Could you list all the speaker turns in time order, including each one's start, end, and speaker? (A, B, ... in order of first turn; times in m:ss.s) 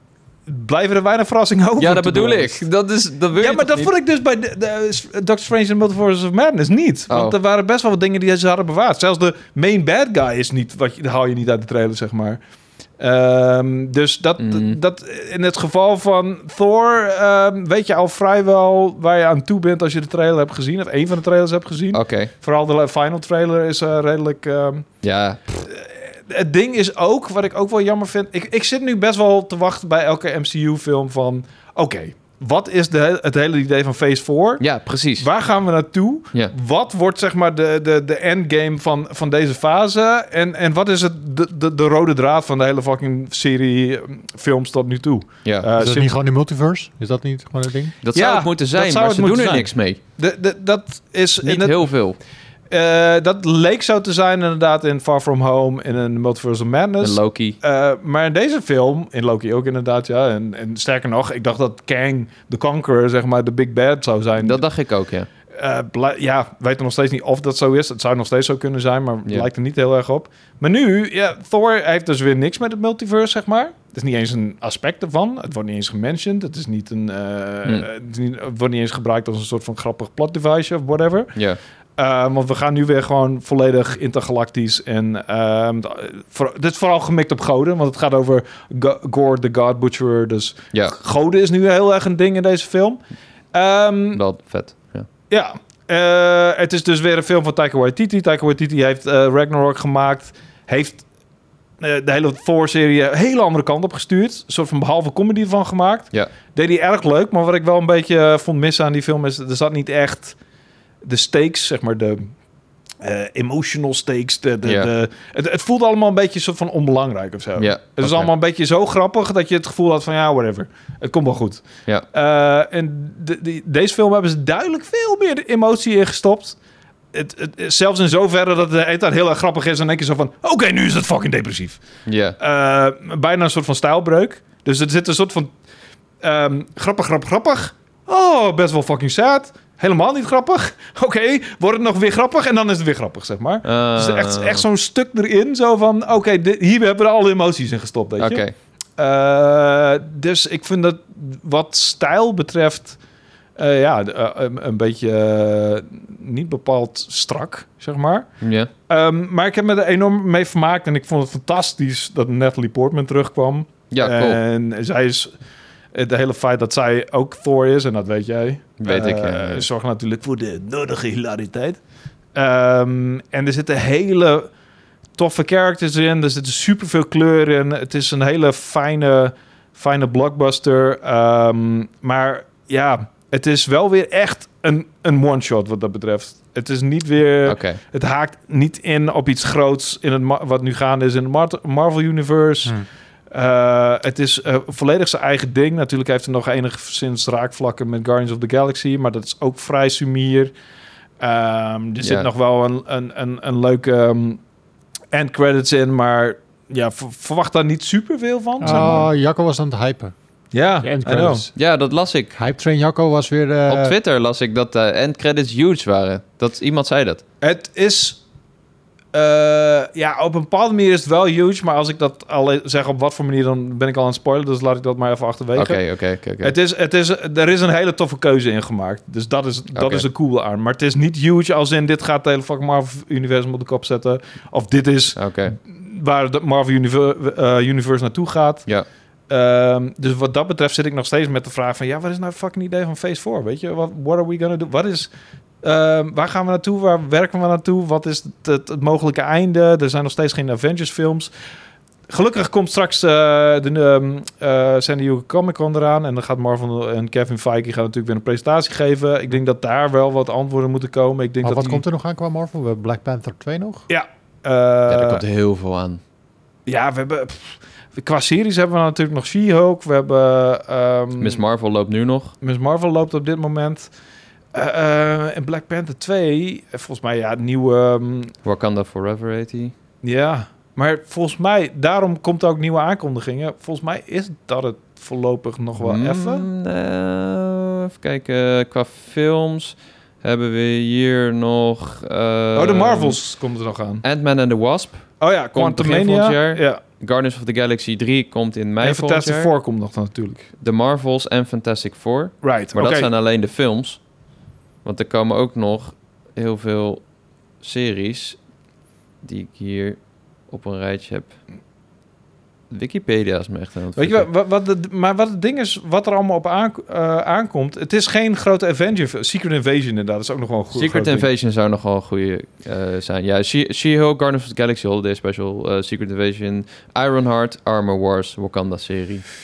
0:00.5-0:02.7 A
0:01.8-0:03.9 B
0:03.4-0:12.4 A
0:07.1-0:07.4 B
0:13.0-0:24.8 A
0:14.4-0:14.8 B
0:21.9-0:22.3 B
0:25.0-0:25.4 B
0:25.6-0:46.1 A
0:34.6-0:35.3 B
0:45.8-0:48.0 C
0:48.0-0:50.0 B
0:48.1-0:52.0 A
0:51.4-0:52.2 B
0:52.7-1:04.6 A
0:57.0-0:57.6 B
1:04.4-1:05.3 B
1:05.5-1:21.4 A
1:22.0-1:33.0 A
1:33.5-1:34.2 A
1:34.1-1:35.1 B
1:35.3-1:41.0 A
1:41.8-1:50.4 A
1:51.0-1:52.3 A
1:53.0-2:06.6 A
1:54.6-1:54.9 B
1:57.6-1:58.3 B
2:07.1-2:11.8 A
2:12.0-2:12.4 B
2:12.4-2:15.5 A
2:16.2-2:28.4 A
2:23.6-2:24.6 B
2:28.2-2:28.5 B
2:29.0-2:33.0 A
2:33.6-2:38.3 A
2:38.4-2:38.7 B
2:38.9-2:45.3 A
2:43.9-2:44.4 B
2:45.9-2:51.8 A
2:48.8-2:49.7 B
2:52.3-2:54.5 A
2:55.2-3:12.8 A
3:07.4-3:07.8 B
3:13.3-3:20.5 A
3:21.2-3:24.4 A
3:22.0-3:22.3 B
3:25.1-3:29.1 A
3:28.6-3:30.1 C
3:28.6-3:29.0 B
3:30.5-3:31.4 A
3:30.8-3:31.6 C
3:31.5-3:32.3 B
3:32.3-3:34.0 C
3:33.7-3:37.2 B
3:37.4-3:38.2 A
3:39.1-3:58.7 A
3:45.5-3:46.5 B
3:49.7-3:50.1 B
3:55.2-3:55.5 B
3:59.3-4:05.1 A
4:05.6-4:11.3 A
4:12.1-4:21.8 A
4:21.4-4:23.8 C
4:23.9-4:25.2 A
4:24.9-4:26.0 B
4:26.6-4:31.4 A
4:31.2-4:32.3 B
4:32.4-4:33.9 A
4:34.5-4:38.3 A
4:38.4-4:39.7 B
4:40.0-4:46.5 A
4:45.8-4:53.2 B
4:52.5-4:54.0 A
4:54.0-4:59.5 B
4:55.2-4:56.8 A
4:58.8-5:00.5 A
5:00.6-5:04.0 B
5:02.4-5:03.1 A
5:04.8-5:07.0 B
5:07.6-5:08.4 B
5:09.2-5:11.4 B
5:12.7-5:14.3 B
5:14.0-5:21.3 A
5:20.7-5:29.2 B